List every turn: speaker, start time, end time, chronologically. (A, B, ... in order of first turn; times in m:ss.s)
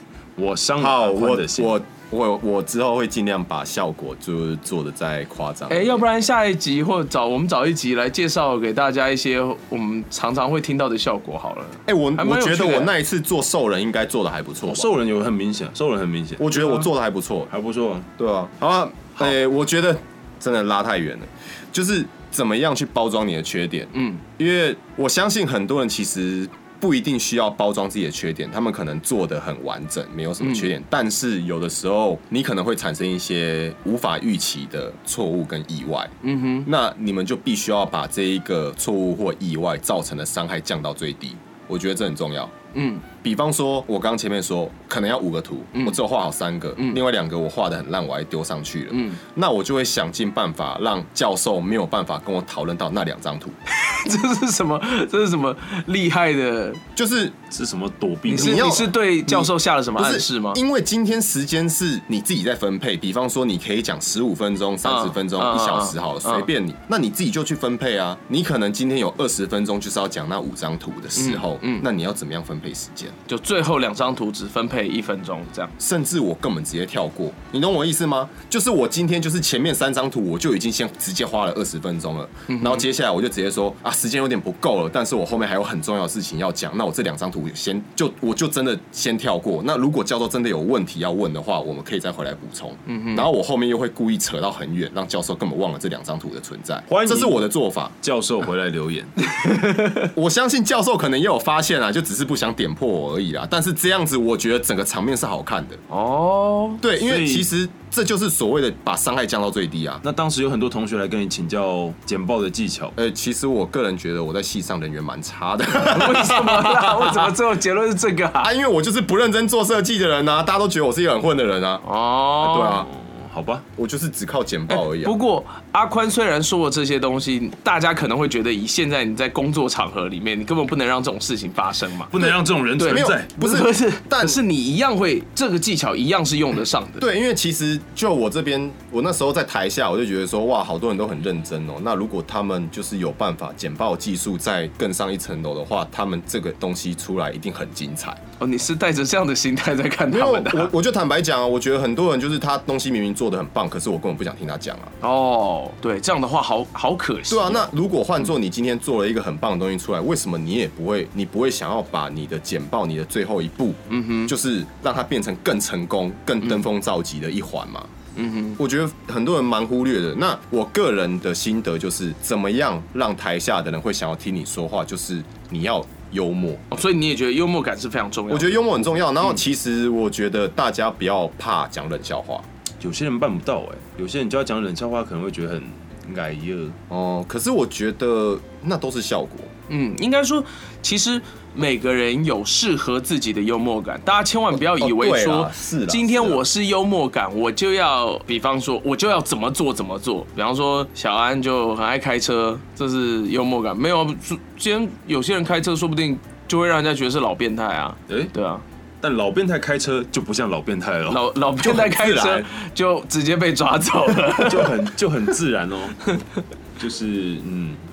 0:00.4-0:01.7 A
0:00.8-0:06.0 B
0:05.7-0:12.9 C
0:11.8-0:14.9 B
0:14.6-0:16.8 A
0:16.4-0:17.5 B
0:17.5-0:18.1 A
0:18.2-0:36.1 B
0:23.9-0:24.2 C
0:30.4-0:30.7 C
0:36.2-0:36.7 C
0:36.6-0:42.5 B
0:42.7-0:43.0 C
0:43.2-0:53.6 B
0:48.9-0:49.2 C
0:53.7-0:56.8 C
0:57.0-0:57.4 B
0:57.5-0:58.8 A
0:58.3-1:00.6 C
0:58.3-1:13.1 B
1:04.8-1:06.5 C
1:11.2-1:11.8 C
1:13.3-1:15.7 C
1:15.8-1:37.9 B
1:22.5-1:22.8 C
1:32.9-1:33.3 C
1:36.9-1:37.4 A
1:38.0-1:39.1 A
1:39.2-1:40.1 C
1:40.1-1:45.8 B
1:45.9-1:46.8 C
1:46.8-1:50.0 B
1:47.0-1:47.5 A
1:50.0-1:53.0 A
1:53.0-1:57.3 B
1:55.9-1:58.5 C
1:58.4-2:01.8 B
2:01.8-2:02.8 C
2:02.4-2:02.9 B
2:02.7-2:03.6 A
2:03.8-2:05.2 B
2:04.7-2:12.2 C
2:12.1-2:13.3 A
2:12.8-2:17.0 C
2:12.8-2:14.4 B
2:17.0-2:28.2 B
2:28.4-2:30.7 C
2:30.1-2:34.9 B
2:35.0-2:37.7 C
2:37.3-2:47.9 B
2:43.9-2:44.3 C
2:48.1-2:48.6 C
2:48.6-2:56.6 B
2:56.7-2:59.4 C
2:58.3-3:02.5 B
3:02.8-3:06.8 A
3:06.9-3:09.5 B
3:09.7-3:28.6 C
3:14.6-3:16.4 B
3:29.0-3:31.3 A
3:31.1-3:34.7 C
3:31.6-3:32.5 B
3:34.4-3:36.0 A
3:36.8-3:37.8 A